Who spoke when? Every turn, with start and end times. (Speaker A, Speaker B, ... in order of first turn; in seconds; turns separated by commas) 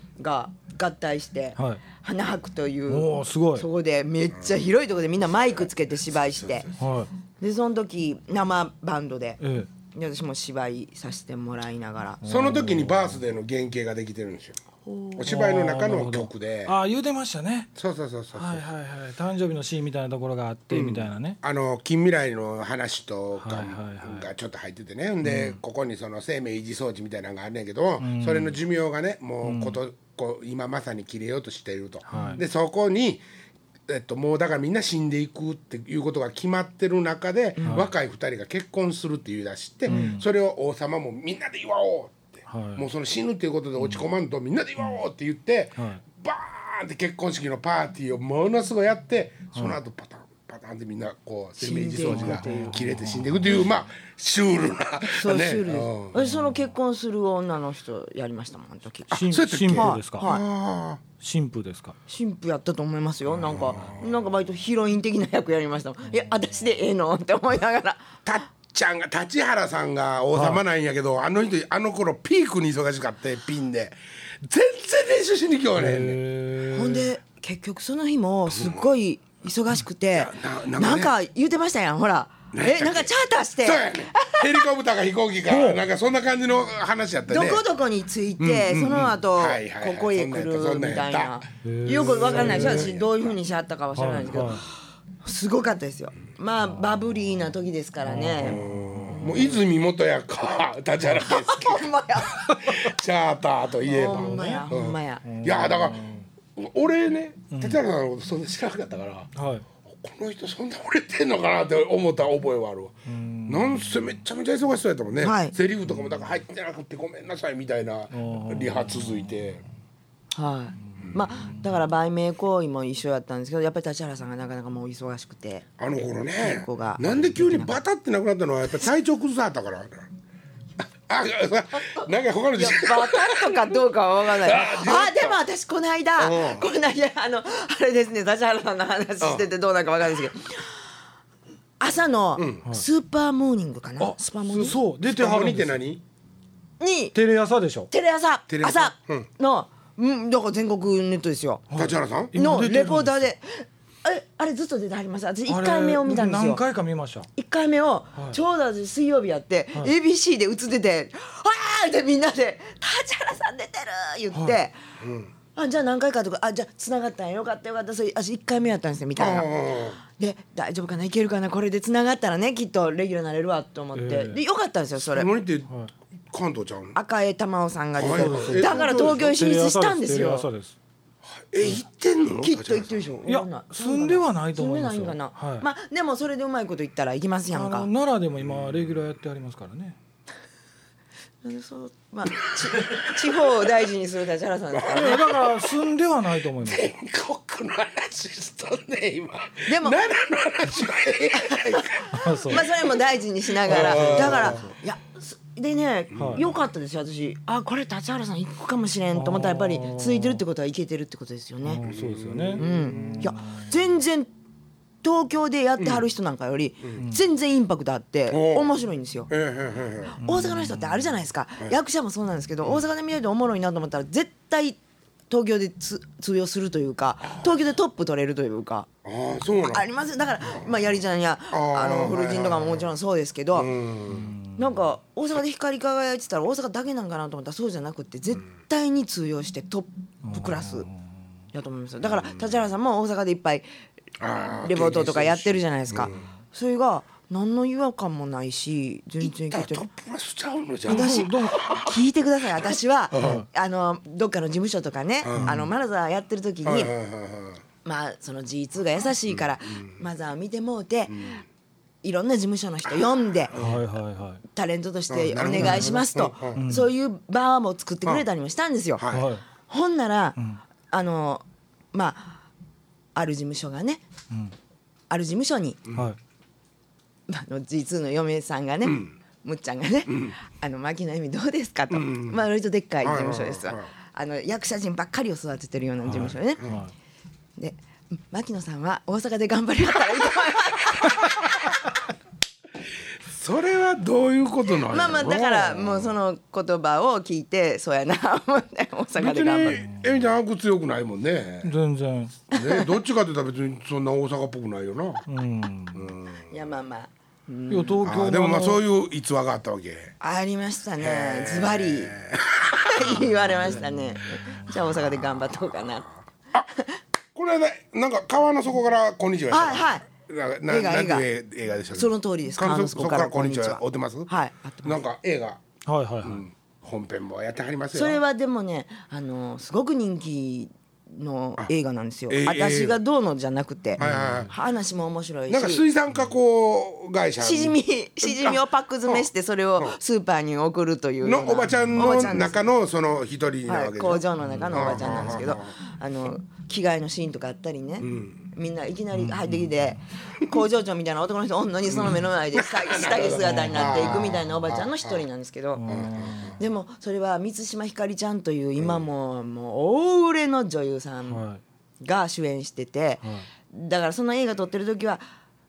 Speaker A: 0.2-6.7, Speaker B: 1.6-1.8, Speaker B: 2.9-3.7, Speaker C: 6.4-6.8, Speaker B: 6.8-7.1, Speaker A: 7.4-9.4, Speaker B: 9.4-9.7, Speaker A: 9.9-12.2, Speaker B: 12.2-13.2, Speaker C: 12.2-14.6, Speaker A: 14.8-15.2, Speaker C: 15.2-16.8, Speaker B: 15.2-17.7, Speaker C: 17.8-18.6, Speaker B: 18.4-21.4, Speaker C: 20.7-33.2, Speaker B: 23.4-24.3, Speaker B: 25.2-25.6, Speaker B: 28.0-28.6, Speaker B: 29.4-29.8, Speaker B: 32.1-32.4, Speaker C: 33.9-56.2, Speaker A: 37.6-37.8, Speaker B: 37.6-37.9, Speaker B: 39.9-40.2, Speaker B: 42.5-42.8, Speaker B: 43.8-44.0, Speaker A: 51.6-52.8, Speaker B: 52.0-53.7, Speaker A: 55.0-60.4, Speaker B: 56.2-56.5, Speaker B: 59.1-60.3, Speaker C: 59.1-61.0, Speaker B: 61.2-62.0, Speaker A: 62.1-68.1, Speaker C: 63.4-64.0, Speaker C: 68.3-76.2, Speaker B: 70.3-70.6, Speaker B: 75.8-77.1, Speaker A: 76.7-84.7, Speaker C: 78.5-78.9, Speaker C: 80.1-81.1, Speaker C: 82.5-83.1, Speaker C: 83.6-87.7, Speaker B: 85.5-85.8, Speaker A: 87.3-99.6, Speaker C: 88.4-93.3, Speaker B: 91.6-92.9, Speaker B: 94.0-94.7, Speaker B: 98.0-99.5, Speaker C: 98.4-109.3, Speaker A: 101.2-102.7, Speaker A: 103.9-105.2, Speaker B: 104.0-104.7, Speaker B: 105.2-106.3, Speaker B: 107.5-107.8, Speaker B: 109.4-109.7, Speaker C: 109.9-119.6, Speaker B: 113.1-114.1, Speaker A: 115.2-115.5, Speaker B: 118.1-119.5, Speaker A: 120.3-125.7, Speaker B: 121.4-121.7, Speaker C: 125.8-130.1, Speaker A: 126.4-127.8, Speaker C: 131.1-133.8, Speaker A: 132.6-140.8, Speaker C: 134.3-135.4, Speaker C: 136.2-136.6, Speaker C: 139.2-139.5, Speaker A: 141.8-144.8, Speaker C: 142.4-142.6, Speaker B: 144.0-145.8, Speaker C: 145.0-146.0, Speaker A: 146.8-147.2, Speaker B: 147.1-147.9, Speaker A: 147.9-151.7, Speaker C: 148.5-149.3, Speaker B: 151.7-153.2, Speaker C: 151.8-152.3, Speaker A: 152.3-156.6, Speaker B: 155.5-157.3, Speaker A: 157.4-164.8, Speaker B: 164.3-164.6, Speaker C: 165.0-165.3, Speaker A: 165.6-169.5, Speaker C: 169.2-170.0, Speaker A: 170.1-175.3, Speaker B: 173.9-174.4, Speaker C: 175.0-175.7, Speaker C: 176.3-177.0, Speaker A: 176.9-180.5, Speaker C: 178.0-179.4, Speaker B: 178.1-180.8, Speaker C: 181.4-183.1, Speaker A: 182.4-187.9, Speaker B: 183.3-185.7, Speaker B: 187.5-190.0, Speaker C: 188.4-188.9, Speaker A: 191.4-195.3, Speaker C: 192.4-193.1, Speaker C: 194.7-195.7, Speaker B: 194.9-196.9, Speaker C: 196.6-202.7, Speaker A: 199.7-200.0, Speaker A: 201.4-211.8, Speaker B: 202.1-202.7, Speaker C: 203.6-204.7, Speaker B: 203.7-204.7, Speaker B: 206.2-206.4, Speaker B: 209.1-210.4, Speaker B: 211.6-213.7, Speaker C: 211.8-212.7, Speaker A: 212.6-214.3, Speaker A: 215.0-219.3, Speaker C: 218.3-218.7, Speaker C: 219.3-220.2, Speaker A: 220.1-228.9, Speaker B: 220.2-221.1, Speaker C: 229.1-229.8, Speaker A: 229.6-233.7, Speaker C: 231.5-232.9, Speaker C: 233.5-234.3, Speaker B: 234.1-234.7, Speaker A: 234.6-240.9, Speaker B: 240.2-240.9, Speaker A: 241.5-243.7, Speaker C: 244.2-246.2, Speaker A: 244.6-249.8, Speaker C: 249.2-251.9, Speaker B: 250.9-251.6, Speaker A: 250.9-256.9, Speaker C: 253.1-253.4, Speaker B: 253.2-253.4, Speaker C: 255.2-255.6, Speaker B: 255.4-255.7, Speaker C: 256.6-257.6, Speaker A: 257.9-261.4, Speaker C: 259.7-260.0, Speaker C: 261.1-261.4, Speaker A: 262.0-263.6, Speaker C: 263.5-263.8, Speaker B: 263.6-264.4, Speaker A: 264.5-269.0, Speaker C: 265.1-266.6, Speaker B: 265.5-265.9, Speaker B: 266.6-266.9, Speaker C: 269.0-269.3, Speaker B: 269.1-269.4, Speaker A: 269.7-270.4, Speaker A: 270.9-272.4, Speaker A: 273.1-274.0, Speaker A: 275.1-275.8, Speaker A: 277.3-286.6, Speaker C: 278.9-279.1, Speaker C: 281.9-282.4, Speaker C: 283.0-283.9, Speaker B: 286.0-286.9, Speaker A: 287.6-291.8, Speaker C: 293.3-296.1, Speaker A: 294.8-299.8, Speaker C: 299.2-301.7, Speaker B: 299.7-300.0, Speaker B: 301.6-302.4, Speaker C: 302.5-305.2, Speaker A: 302.6-302.9, Speaker B: 305.3-306.1, Speaker C: 305.9-306.5, Speaker A: 306.5-308.0, Speaker B: 307.7-308.8, Speaker C: 308.0-310.1, Speaker A: 310.2-312.1, Speaker C: 311.0-313.3, Speaker A: 312.9-316.1, Speaker B: 314.3-314.6, Speaker C: 317.4-324.3, Speaker A: 319.5-320.1, Speaker A: 320.7-321.3, Speaker A: 321.9-325.0, Speaker C: 324.8-325.6, Speaker B: 325.9-326.4, Speaker C: 326.2-328.2, Speaker A: 327.9-335.9, Speaker C: 332.3-333.0, Speaker C: 334.0-334.5, Speaker B: 334.0-334.5, Speaker C: 335.5-340.0, Speaker A: 337.4-342.7, Speaker C: 341.2-345.8, Speaker A: 343.7-355.9, Speaker B: 344.4-344.9, Speaker C: 348.0-348.4, Speaker B: 349.1-349.9, Speaker C: 351.9-355.2, Speaker B: 353.4-354.4, Speaker B: 355.8-356.6, Speaker C: 355.9-356.6, Speaker A: 356.6-361.4, Speaker C: 358.8-359.0, Speaker B: 361.3-361.6, Speaker A: 362.0-365.2